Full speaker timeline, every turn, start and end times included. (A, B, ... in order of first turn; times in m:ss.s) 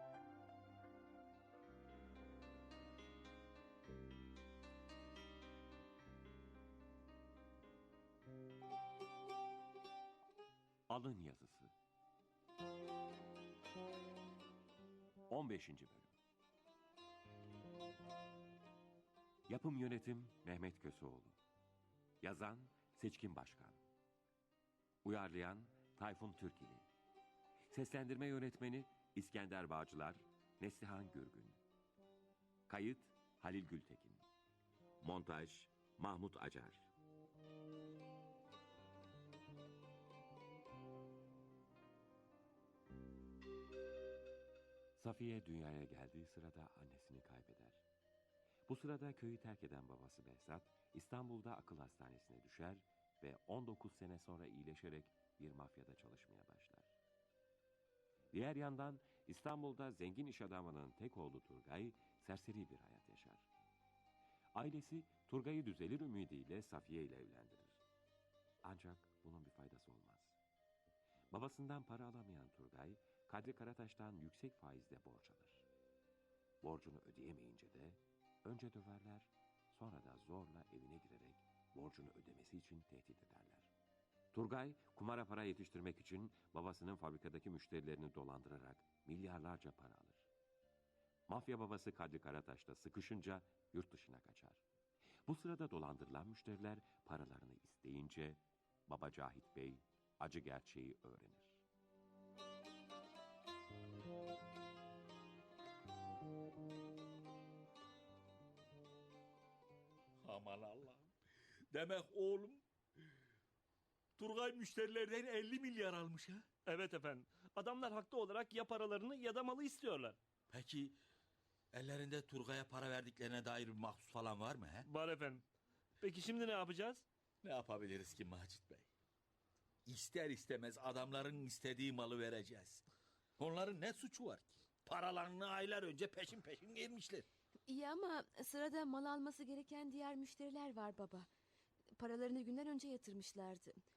0:10.9-0:11.7 A
0:15.3-0:16.1 A
0:19.5-0:21.4 A
0:22.2-0:23.8 A
0:25.0-0:26.8 A
0:27.7-0:31.6 A
0:32.7-0:34.2 A
0:35.0-0:36.8 A
0:45.0-0:47.8 A
0:48.7-0:56.9 A
0:58.3-1:03.4 A
1:04.5-1:07.8 A
1:08.6-1:10.3 A
1:11.3-1:15.6 A
1:16.6-1:23.7 A
1:24.3-1:30.3 A
1:31.3-1:34.6 A
1:35.2-1:41.6 A
1:50.2-1:51.1 B
1:51.7-1:52.6 B
1:54.2-1:56.4 B
1:56.6-2:00.2 C
2:00.5-2:00.9 B
2:01.7-2:04.9 B
2:04.8-2:05.4 C
2:06.0-2:07.0 C
2:07.4-2:08.9 B
2:09.8-2:12.8 B
2:13.4-2:17.2 B
2:17.7-2:21.3 D
2:22.0-2:23.7 D